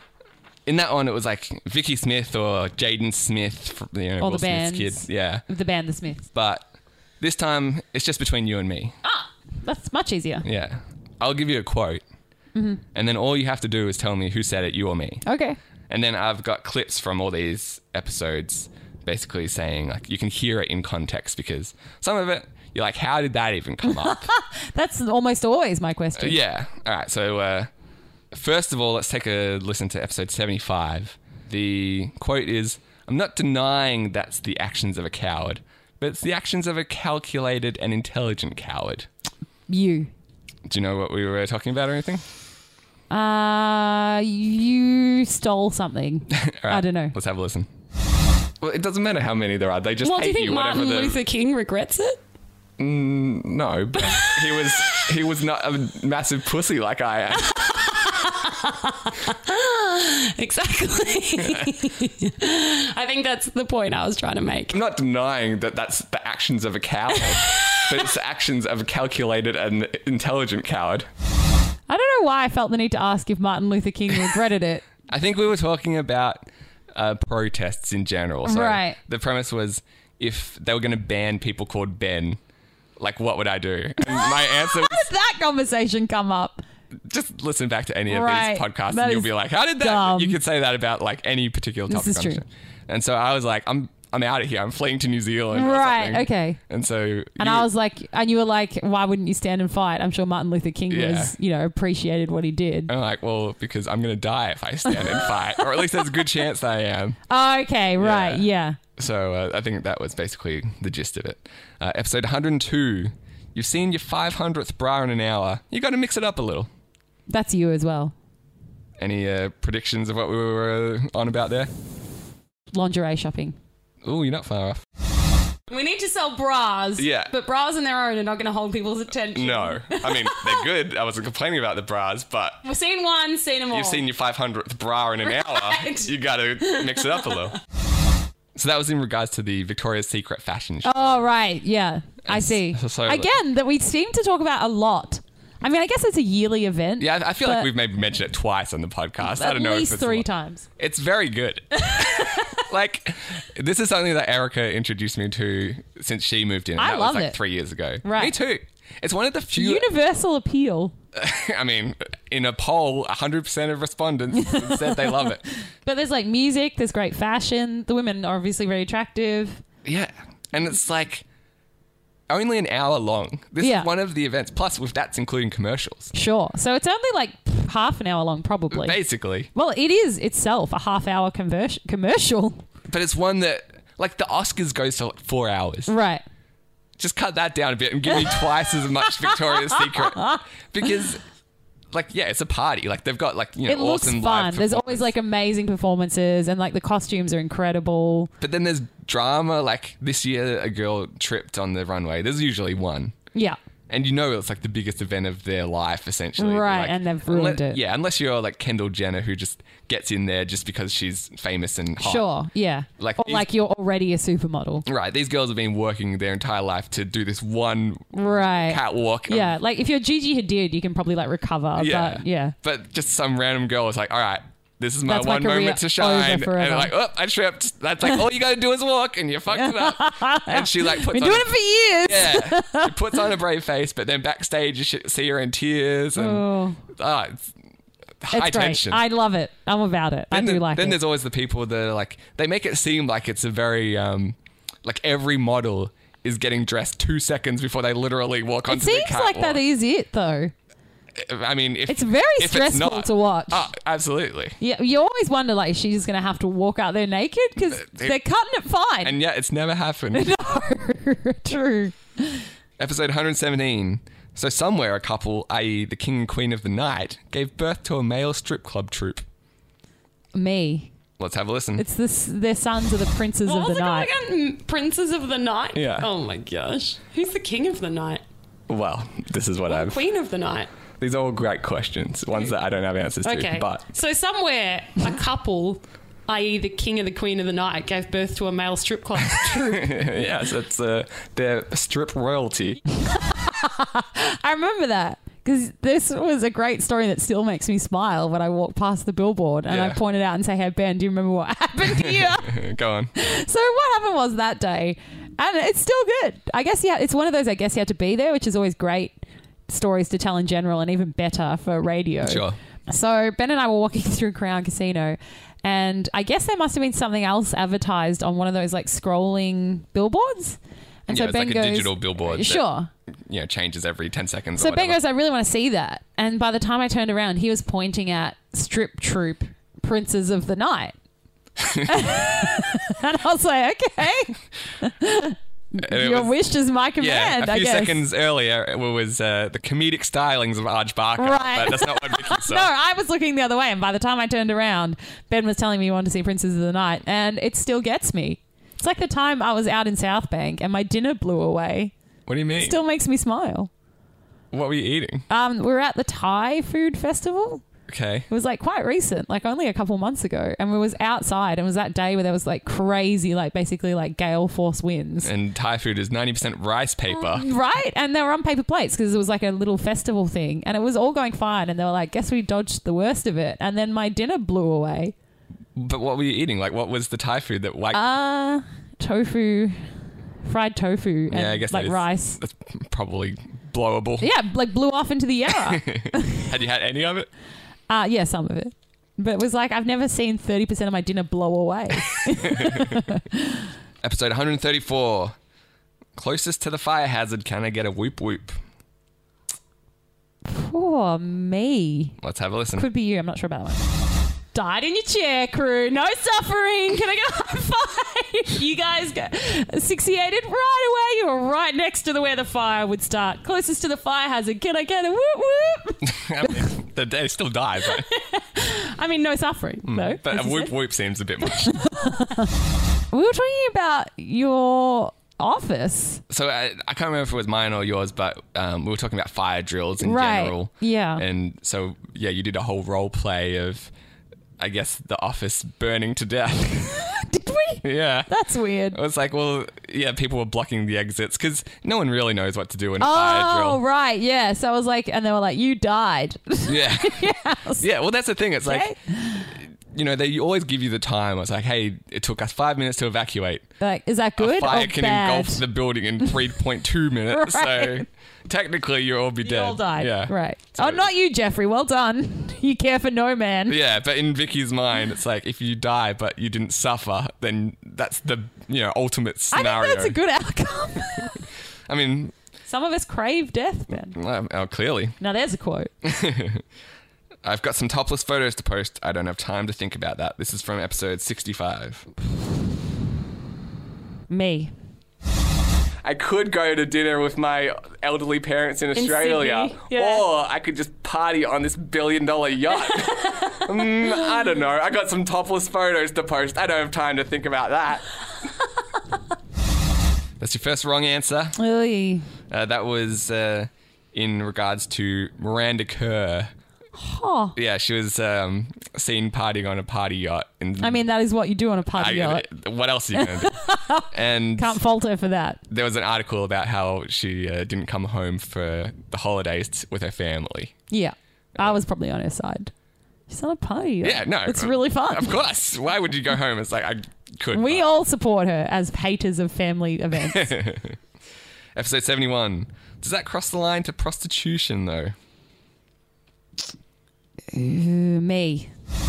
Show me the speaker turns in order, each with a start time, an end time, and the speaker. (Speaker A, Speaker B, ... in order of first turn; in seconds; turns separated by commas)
Speaker A: 0.7-5.4, Speaker B: 4.2-6.2, Speaker A: 6.3-6.7, Speaker A: 7.2-9.0, Speaker B: 9.0-10.4, Speaker A: 10.4-12.0, Speaker B: 12.6-12.8, Speaker A: 12.9-15.2, Speaker B: 15.2-15.6, Speaker A: 15.9-24.3, Speaker B: 23.9-26.4, Speaker A: 26.2-27.7, Speaker A: 28.3-39.1, Speaker B: 39.7-40.1, Speaker A: 40.7-42.2, Speaker B: 43.1-47.1, Speaker A: 46.3-47.7, Speaker A: 48.6-51.2, Speaker B: 50.0-51.1, Speaker C: 50.3-52.2, Speaker A: 52.8-57.8, Speaker C: 59.3-64.7, Speaker A: 61.4-61.7, Speaker A: 64.7-71.1, Speaker B: 71.9-74.8, Speaker A: 75.1-82.4, Speaker B: 78.5-79.0, Speaker A: 83.0-85.1, Speaker B: 84.0-86.6, Speaker A: 87.1-97.7, Speaker B: 88.1-90.4, Speaker B: 91.9-92.4, Speaker B: 95.5-96.6, Speaker B: 97.4-102.9, Speaker A: 100.9-101.3, Speaker A: 102.9-107.2, Speaker B: 107.3-108.8, Speaker A: 108.0-108.5, Speaker A: 109.0-116.7, Speaker B: 117.3-118.1, Speaker A: 119.0-121.7, Speaker B: 122.7-123.6, Speaker A: 124.0-124.8, Speaker C: 125.7-126.9, Speaker B: 127.0-130.5, Speaker A: 127.0-127.3, Speaker C: 127.5-129.2, Speaker A: 129.3-132.6, Speaker C: 132.7-133.6, Speaker B: 132.7-133.9, Speaker A: 133.7-137.6, Speaker A: 138.6-141.1, Speaker B: 140.8-147.7, Speaker A: 142.3-143.3, Speaker A: 147.0-150.3, Speaker B: 149.3-150.7, Speaker A: 150.8-159.9, Speaker B: 151.9-152.4, Speaker B: 156.8-157.4, Speaker B: 158.0-158.3, Speaker B: 159.5-160.9, Speaker A: 161.1-165.5, Speaker B: 164.4-169.6, Speaker A: 169.8-171.2, Speaker A: 172.3-176.1, Speaker B: 173.6-173.9, Speaker B: 176.1-179.0, Speaker A: 178.7-179.5, Speaker B: 179.5-182.6, Speaker A: 182.9-185.9, Speaker B: 185.9-186.2, Speaker A: 187.0-191.2, Speaker B: 189.7-190.4, Speaker A: 191.9-195.1, Speaker B: 193.7-198.3, Speaker A: 198.4-203.2, Speaker A: 203.9-212.3, Speaker B: 206.4-207.8, Speaker B: 212.0-214.8, Speaker A: 213.0-213.5, Speaker A: 214.9-219.5, Speaker B: 218.1-222.6, Speaker A: 221.8-237.5, Speaker B: 225.1-226.9, Speaker B: 229.5-233.1, Speaker B: 236.2-236.8, Speaker A: 238.2-239.0, Speaker B: 238.3-241.0, Speaker A: 240.3-249.6, Speaker B: 248.7-250.5, Speaker A: 251.2-254.6, Speaker B: 251.9-253.7, Speaker B: 254.6-259.2, Speaker A: 257.7-258.2, Speaker A: 259.0-260.3, Speaker B: 260.1-262.4, Speaker A: 262.8-269.2, Speaker B: 270.3-270.9, Speaker A: 271.2-271.9, Speaker B: 271.8-274.1, Speaker C: 273.4-278.2, Speaker A: 275.7-276.1, Speaker A: 278.7-280.0, Speaker C: 279.7-280.7, Speaker A: 281.0-283.9, Speaker C: 283.2-289.9, Speaker A: 289.3-292.8, Speaker B: 293.0-302.6, Speaker A: 299.7-300.0, Speaker A: 301.9-303.1, Speaker B: 303.1-322.9, Speaker A: 312.2-312.6, Speaker A: 321.1-322.6, Speaker A: 323.3-325.0, Speaker B: 324.6-330.9, Speaker A: 331.6-332.2, Speaker B: 331.9-338.0, Speaker A: 335.8-336.3, Speaker A: 337.0-342.7, Speaker B: 341.2-351.9, Speaker A: 352.3-352.8, Speaker B: 352.6-353.7, Speaker A: 354.5-355.2, Speaker B: 355.3-357.6, Speaker A: 357.9-358.3, Speaker B: 358.3-365.3, Speaker A: 365.2-367.5, Speaker B: 367.1-375.1, Speaker A: 375.8-378.0, Speaker B: 377.9-379.9, Speaker B: 380.4-382.4, Speaker A: 381.3-384.3, Speaker B: 384.2-386.5, Speaker A: 385.5-387.3, Speaker B: 387.9-393.7, Speaker A: 392.2-393.0, Speaker A: 394.0-395.4, Speaker A: 396.2-398.6, Speaker B: 400.4-402.2, Speaker A: 402.2-402.9, Speaker B: 402.8-403.9, Speaker B: 404.5-416.7, Speaker A: 416.0-418.1, Speaker B: 417.9-420.7, Speaker A: 419.9-421.8, Speaker B: 421.5-422.6, Speaker B: 423.1-426.2, Speaker A: 426.3-433.9, Speaker B: 430.0-431.2, Speaker A: 434.6-436.9, Speaker B: 436.9-439.0, Speaker A: 437.8-438.3, Speaker A: 438.9-443.8, Speaker B: 443.0-447.9, Speaker A: 446.7-448.9, Speaker B: 448.7-449.5, Speaker A: 449.6-453.7, Speaker B: 453.8-455.6, Speaker A: 454.4-461.1, Speaker B: 457.3-458.1, Speaker B: 459.4-463.8, Speaker A: 463.7-470.2, Speaker B: 469.5-471.4, Speaker A: 471.9-472.3, Speaker B: 472.7-474.2, Speaker A: 474.1-475.2, Speaker B: 475.2-475.9, Speaker A: 476.0-476.6, Speaker A: 477.4-482.1, Speaker B: 484.3-484.7, Speaker A: 486.0-498.1, Speaker B: 489.0-490.2, Speaker C: 489.1-489.9, Speaker A: 500.4-501.6, Speaker B: 501.6-502.3, Speaker A: 502.5-506.5, Speaker B: 507.0-507.5, Speaker A: 507.6-511.0, Speaker B: 510.8-512.5, Speaker A: 511.9-513.5, Speaker B: 513.1-515.6, Speaker A: 514.1-514.8, Speaker A: 515.7-520.8, Speaker B: 520.9-522.7, Speaker B: 523.3-525.4, Speaker A: 524.0-527.9, Speaker B: 527.5-530.5, Speaker A: 530.2-531.0, Speaker A: 531.8-535.1, Speaker B: 537.5-538.7